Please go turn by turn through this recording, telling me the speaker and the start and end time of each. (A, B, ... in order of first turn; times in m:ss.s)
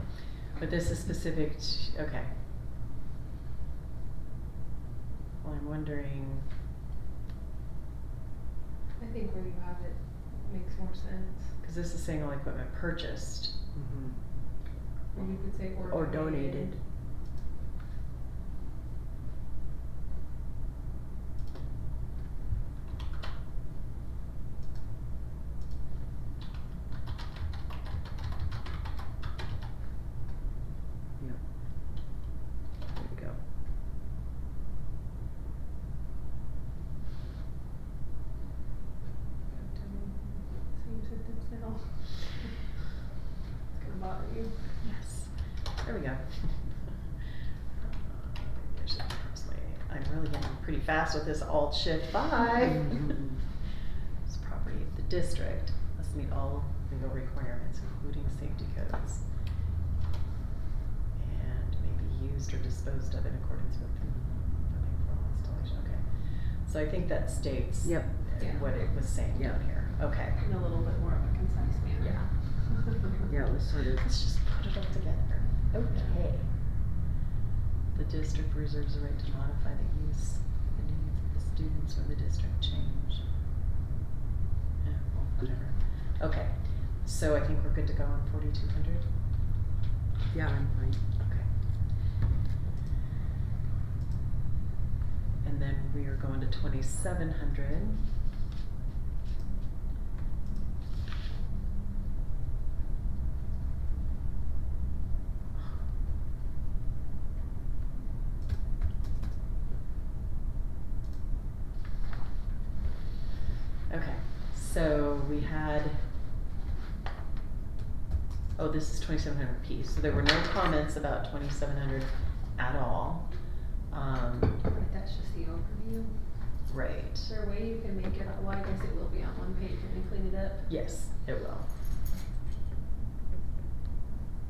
0:00.6-0:02.5 A
0:05.4-0:06.5 A
0:09.0-0:11.6 B
0:11.6-0:13.7 A
0:13.8-0:14.5 C
0:15.1-0:16.8 B
0:15.7-0:16.8 C
0:31.2-0:31.4 C
0:32.9-0:33.4 C
0:39.5-0:42.7 B
0:43.7-0:44.8 B
0:44.8-0:53.3 A
0:54.2-0:59.6 A
1:01.1-1:10.4 A
1:07.8-1:08.2 C
1:08.4-1:09.1 B
1:09.3-1:09.6 C
1:10.4-1:13.3 B
1:12.0-1:12.7 A
1:13.3-1:14.1 C
1:13.8-1:16.7 A
1:17.9-1:23.3 A
1:24.8-1:29.2 A
1:30.3-1:31.1 C
1:31.2-1:32.2 A
1:35.4-1:38.1 A
1:53.9-1:56.2 A
1:58.6-2:04.6 A
2:04.7-2:06.6 B
2:06.7-2:07.3 A
2:07.2-2:10.7 B
2:10.7-2:11.8 A